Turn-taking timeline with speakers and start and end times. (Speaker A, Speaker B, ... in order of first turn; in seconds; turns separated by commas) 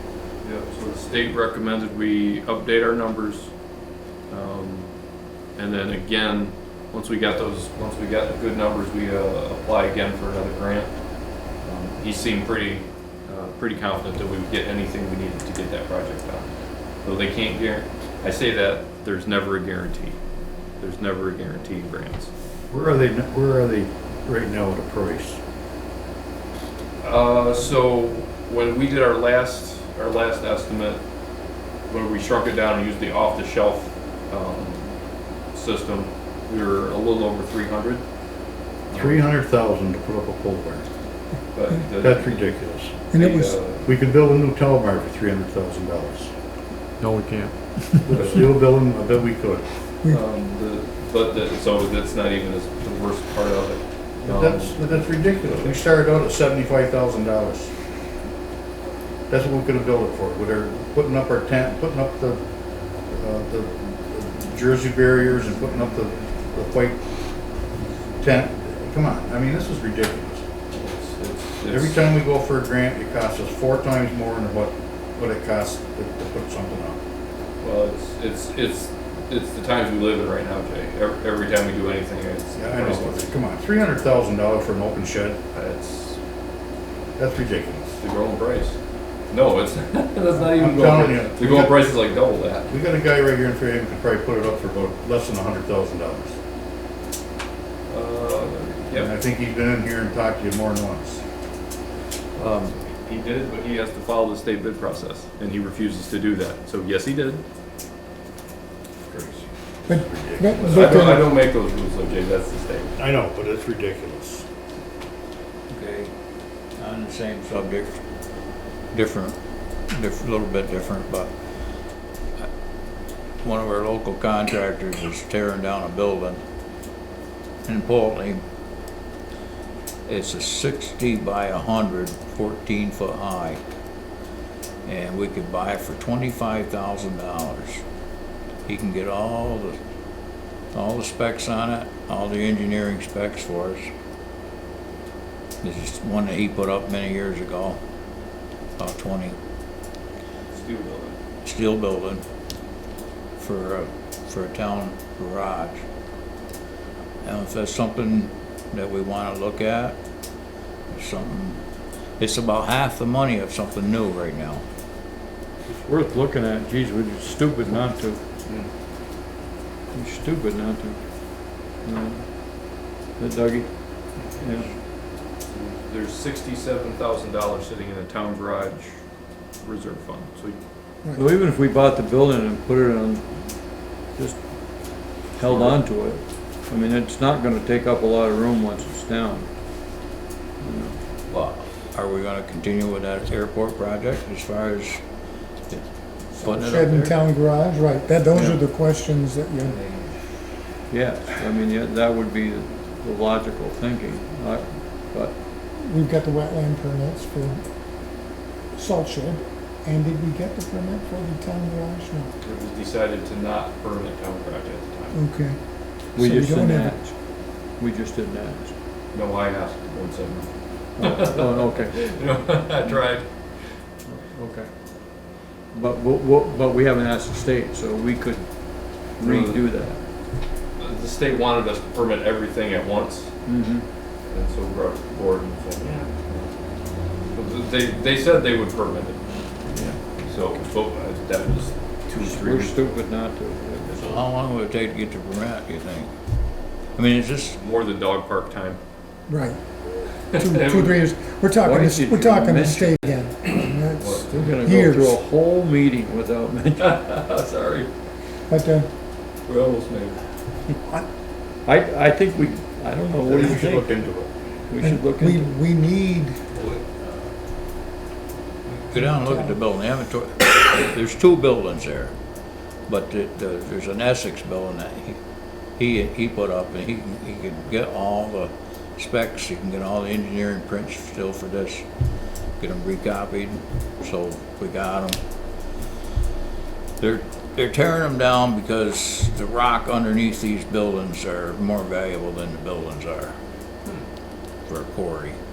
Speaker A: 0.4-3.5, Speaker A: 4.3-4.9, Speaker A: 5.6-10.9, Speaker A: 11.6-16.5, Speaker A: 17.0-20.2, Speaker A: 20.8-22.3, Speaker B: 22.7-25.4, Speaker A: 27.0-31.0, Speaker A: 31.9-34.9, Speaker A: 35.5-38.0, Speaker A: 38.9-39.2, Speaker B: 38.9-40.9, Speaker A: 41.5-43.9, Speaker B: 42.0-43.0, Speaker C: 43.1-43.6, Speaker B: 43.8-46.3, Speaker D: 47.0-47.5, Speaker B: 48.1-49.6, Speaker A: 48.1-48.6, Speaker A: 50.1-54.8, Speaker B: 54.2-57.7, Speaker B: 59.3-62.4, Speaker B: 63.1-67.0, Speaker B: 68.2-70.5, Speaker A: 70.7-72.1, Speaker B: 71.7-77.0, Speaker A: 77.6-83.3, Speaker B: 82.6-85.4, Speaker A: 85.5-86.2, Speaker B: 87.2-87.9, Speaker A: 88.0-88.8, Speaker A: 89.3-92.8, Speaker B: 90.3-91.9, Speaker B: 92.7-96.4, Speaker A: 97.9-99.1, Speaker B: 98.9-101.2, Speaker A: 102.3-107.4, Speaker B: 109.1-111.3, Speaker C: 109.9-111.3, Speaker A: 110.6-112.9, Speaker B: 113.0-114.5, Speaker E: 115.7-116.1, Speaker E: 116.8-118.0, Speaker E: 118.9-119.4, Speaker E: 119.9-121.3, Speaker E: 123.4-126.4, Speaker E: 127.7-128.4, Speaker E: 130.1-133.6, Speaker E: 134.9-137.8, Speaker E: 138.7-139.8, Speaker E: 140.7-143.9, Speaker E: 145.6-147.8, Speaker E: 148.8-149.4, Speaker A: 150.5-151.2, Speaker E: 151.4-152.2, Speaker E: 153.4-155.8, Speaker E: 157.2-160.0, Speaker E: 160.9-161.6, Speaker E: 162.2-164.6, Speaker D: 165.7-168.2, Speaker D: 169.9-171.0, Speaker D: 171.8-172.2, Speaker D: 173.2-173.7, Speaker D: 174.4-174.7, Speaker A: 175.5-178.9, Speaker A: 179.6-180.6, Speaker D: 181.2-183.3, Speaker D: 184.1-184.4, Speaker D: 185.4-189.5, Speaker A: 185.4-185.8, Speaker D: 190.6-191.0, Speaker E: 191.3-195.0, Speaker E: 195.7-197.2, Speaker C: 196.3-199.8, Speaker D: 200.9-205.4, Speaker C: 205.7-207.6, Speaker C: 208.7-212.3, Speaker A: 212.4-215.2, Speaker C: 215.1-215.6, Speaker D: 216.1-218.7, Speaker C: 216.2-217.0, Speaker A: 219.1-223.3, Speaker D: 221.0-221.9, Speaker D: 224.1-224.7, Speaker D: 225.7-230.0, Speaker A: 229.2-229.6, Speaker A: 230.8-233.3, Speaker D: 233.5-233.8, Speaker A: 234.3-236.5, Speaker A: 237.3-239.2, Speaker D: 239.7-240.0, Speaker A: 240.2-242.9, Speaker D: 242.2-244.2, Speaker E: 244.0-246.1, Speaker E: 247.0-247.6, Speaker A: 247.6-248.8, Speaker C: 249.3-249.6, Speaker A: 250.3-251.0, Speaker C: 250.3-255.2, Speaker D: 251.6-253.1, Speaker A: 253.9-254.6, Speaker D: 254.1-257.0, Speaker A: 256.8-257.9, Speaker C: 258.5-258.9, Speaker A: 259.5-260.2, Speaker D: 261.6-264.0, Speaker B: 263.3-264.3, Speaker D: 264.7-265.6, Speaker C: 264.8-266.4, Speaker E: 268.8-272.1, Speaker C: 268.9-269.5, Speaker E: 272.9-275.2, Speaker E: 275.8-281.9, Speaker E: 282.6-285.2, Speaker E: 287.0-293.4, Speaker E: 294.7-295.4